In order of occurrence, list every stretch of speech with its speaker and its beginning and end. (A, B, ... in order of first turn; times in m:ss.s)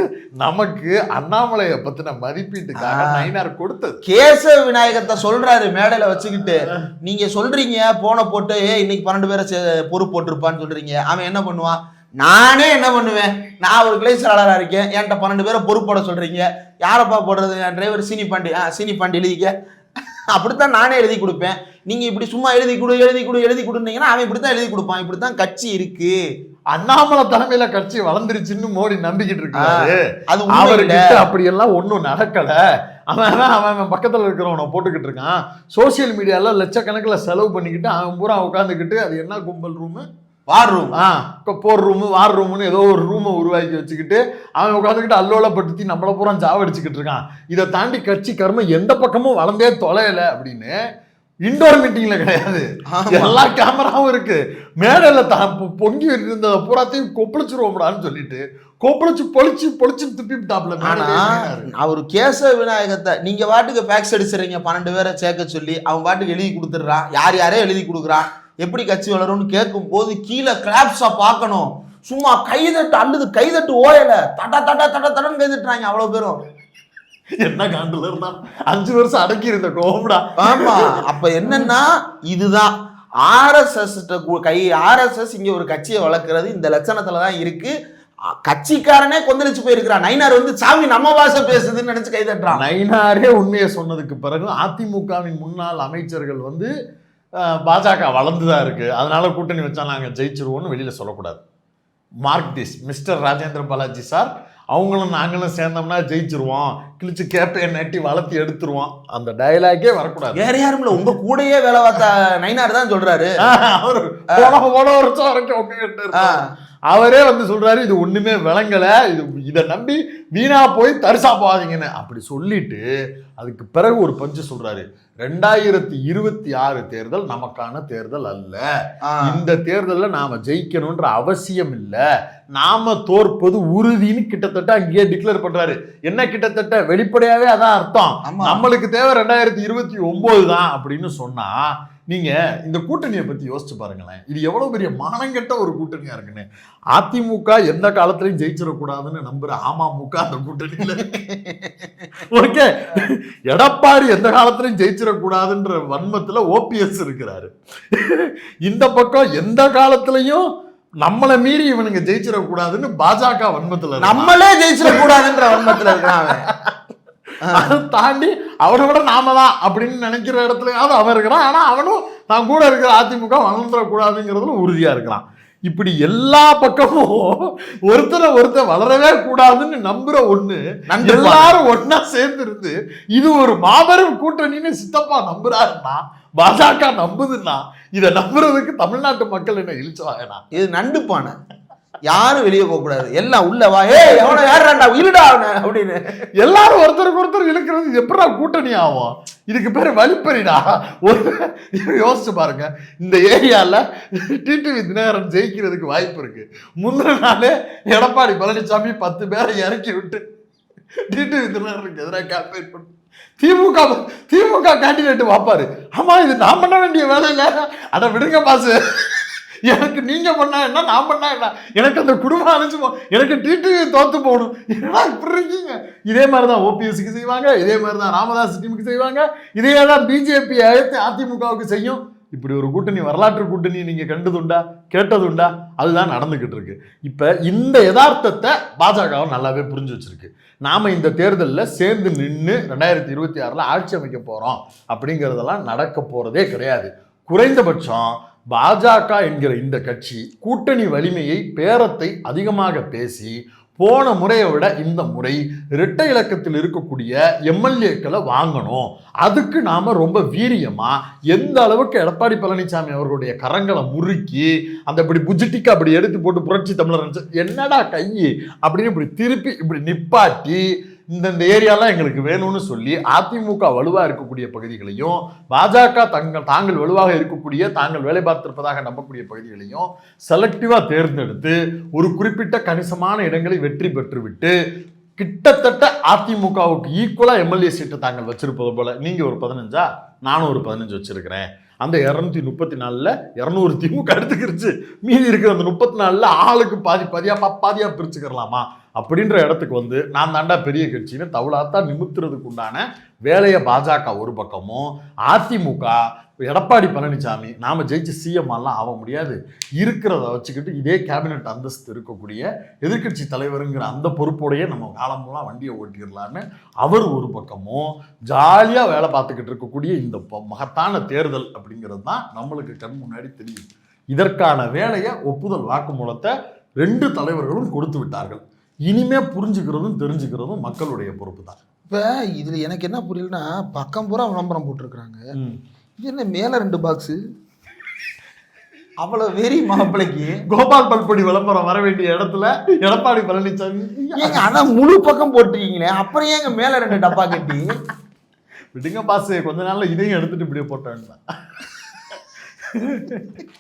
0:00.4-0:04.0 A
0:02.8-0:03.3 B
0:04.0-0:19.5 B
0:06.4-0:06.8 A
0:20.3-0:26.2 B
0:26.7-0:32.6 A
0:29.5-0:31.2 B
0:33.1-0:40.1 A
0:40.5-0:41.0 B
0:40.9-0:50.8 A
0:51.4-1:01.7 A
0:52.9-0:53.4 B
1:00.8-1:16.4 B
1:17.4-1:21.7 A
1:20.4-1:22.7 B
1:23.2-1:27.7 B
1:28.4-1:32.6 B
1:32.5-1:36.7 A
1:37.4-1:41.4 A
1:42.2-1:50.4 A
1:50.3-1:53.4 B
1:53.4-2:02.8 A
1:56.1-1:56.5 B
2:03.4-2:08.6 A
2:09.0-2:09.4 B
2:09.2-2:12.0 A
2:12.5-2:31.1 A
2:18.2-2:18.6 B
2:31.0-2:31.7 B
2:32.2-2:40.5 A
2:41.0-2:46.8 A
2:44.0-2:46.5 B
2:47.4-3:10.4 A
2:47.4-2:47.7 B
3:00.9-3:01.5 B
3:10.5-3:11.3 B
3:12.1-3:16.3 B
3:16.4-3:30.2 A
3:31.1-4:44.6 A
4:45.2-5:31.6 A
5:31.9-5:35.2 B
5:36.0-5:37.2 B
5:39.0-5:40.4 B
5:40.5-5:44.5 A
5:44.2-5:47.8 B
5:48.7-5:53.4 A